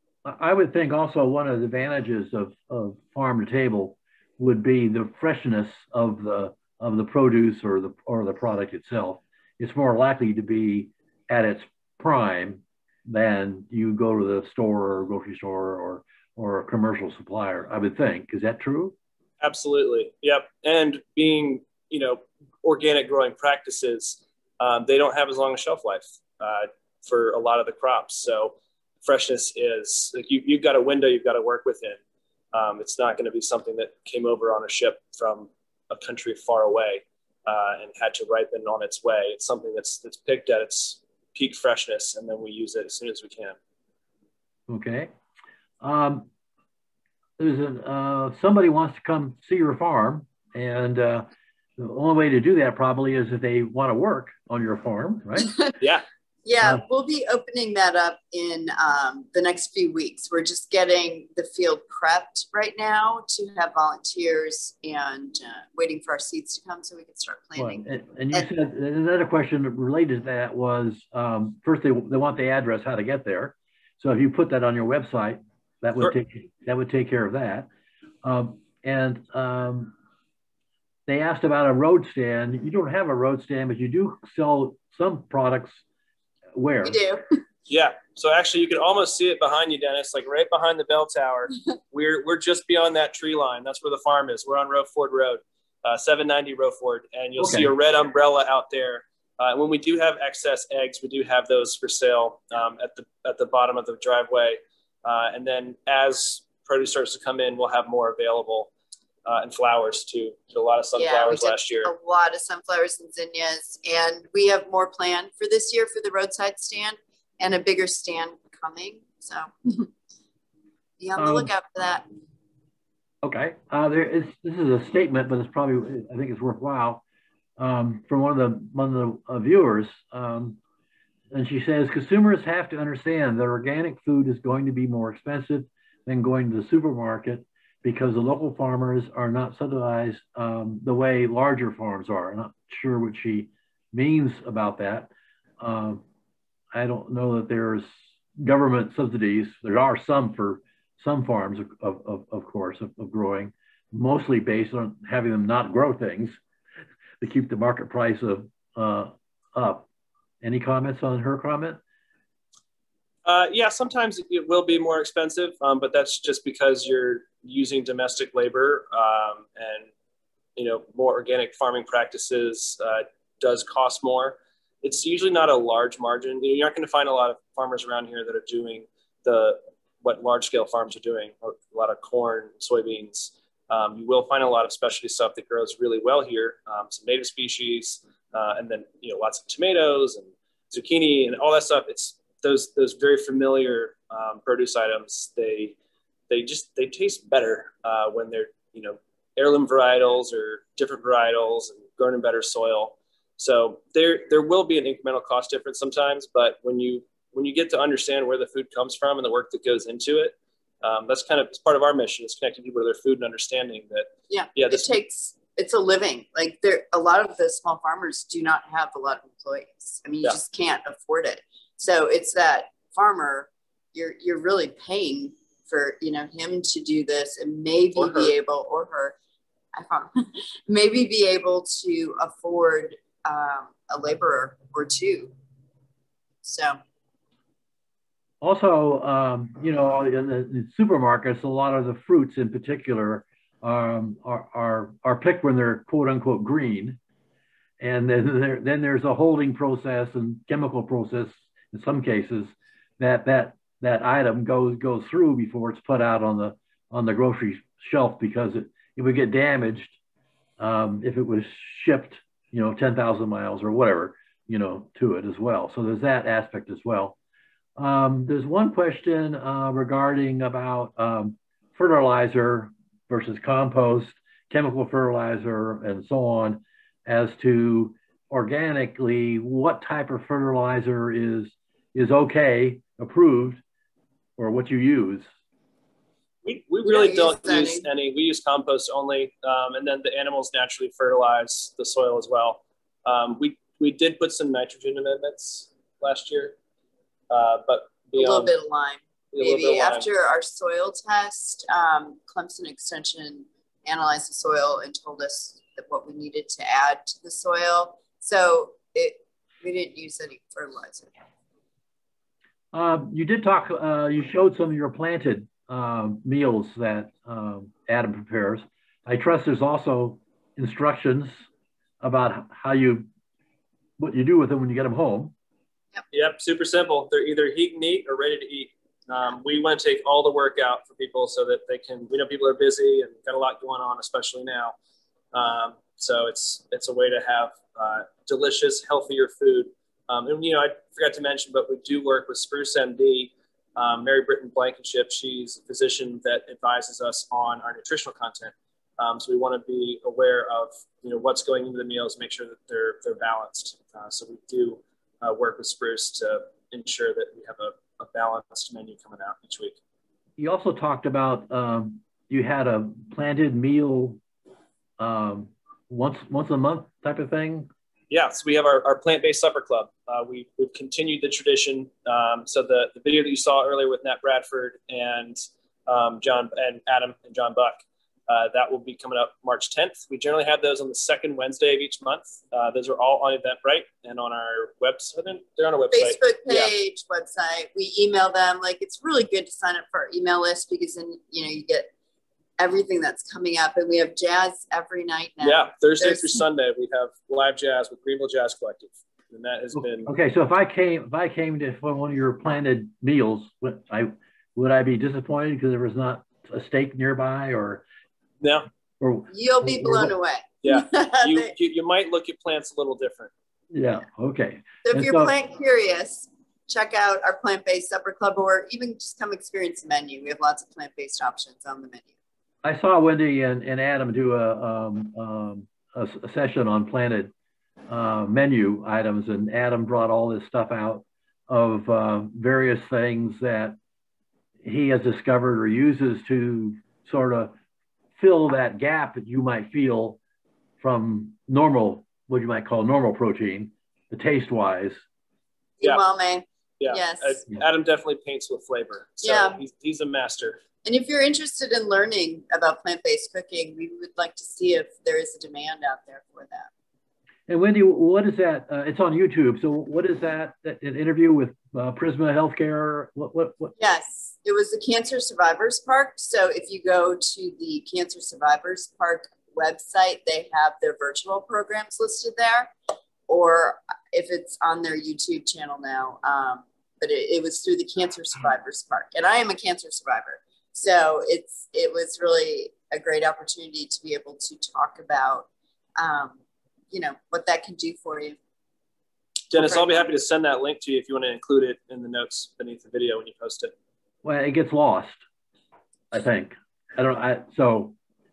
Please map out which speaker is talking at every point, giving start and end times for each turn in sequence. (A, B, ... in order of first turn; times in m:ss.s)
0:00.2-0:19.0 A
0:19.4-0:32.0 B
0:32.5-0:43.6 B
0:44.7-0:45.1 A
0:45.8-0:46.3 A
0:47.4-0:55.6 A
0:55.8-0:56.0 B
0:56.4-1:08.5 C
1:07.6-1:17.7 A
1:18.2-1:19.9 A
1:21.1-1:25.8 A
1:26.5-1:27.0 A
1:26.8-1:27.2 C
1:27.7-1:48.7 B
1:37.4-1:37.7 A
1:49.2-1:51.9 B
1:51.0-1:59.9 C
2:01.0-2:02.1 C
2:01.2-2:01.5 A
2:03.2-2:07.0 A
2:07.6-2:10.6 A
2:11.3-2:26.0 A
2:26.7-2:36.4 A
2:37.2-2:39.8 A
2:40.4-2:41.8 A
2:43.2-2:49.9 B
2:50.6-3:15.8 B
3:16.3-3:35.0 B
3:34.3-3:49.2 C
3:48.0-3:48.3 B
3:49.8-3:50.1 C
3:50.7-3:55.4 C
3:56.4-3:56.8 C
3:58.4-4:07.0 A
4:07.8-4:20.0 A
4:20.6-4:27.2 A
4:27.8-4:43.6 A
4:44.4-4:45.3 A
4:46.4-4:56.6 B
4:46.9-4:47.8 C
4:57.3-4:58.5 B
4:58.2-5:11.1 C
4:59.3-5:00.1 B
5:12.7-5:21.3 A
5:22.0-5:23.1 A
5:24.0-5:25.3 A
5:26.1-5:34.8 B
5:35.3-5:59.8 B
6:00.4-6:04.2 A
6:05.0-6:07.7 A
6:08.1-6:26.7 B
6:25.9-6:31.9 C
6:32.6-6:36.4 C
6:35.4-6:40.1 B
6:39.8-6:47.8 A
6:48.4-6:48.7 B
6:49.0-6:50.1 A
6:49.3-6:51.5 C
6:50.6-6:53.3 B
6:53.7-6:55.3 A
6:54.8-7:02.1 C
7:02.6-7:07.3 A
7:07.9-7:13.8 A
7:14.6-7:17.6 A
7:18.2-7:20.2 A
7:20.8-7:25.0 A
7:25.8-7:27.4 C
7:26.8-7:30.6 B
7:29.2-7:29.6 C
7:30.8-7:36.7 C
7:37.5-7:43.7 A
7:43.8-7:52.7 C
7:53.3-8:06.4 C
8:06.9-8:08.4 C
8:09.5-8:13.7 B
8:09.6-8:09.8 C
8:14.2-8:15.2 A
8:16.1-8:18.0 A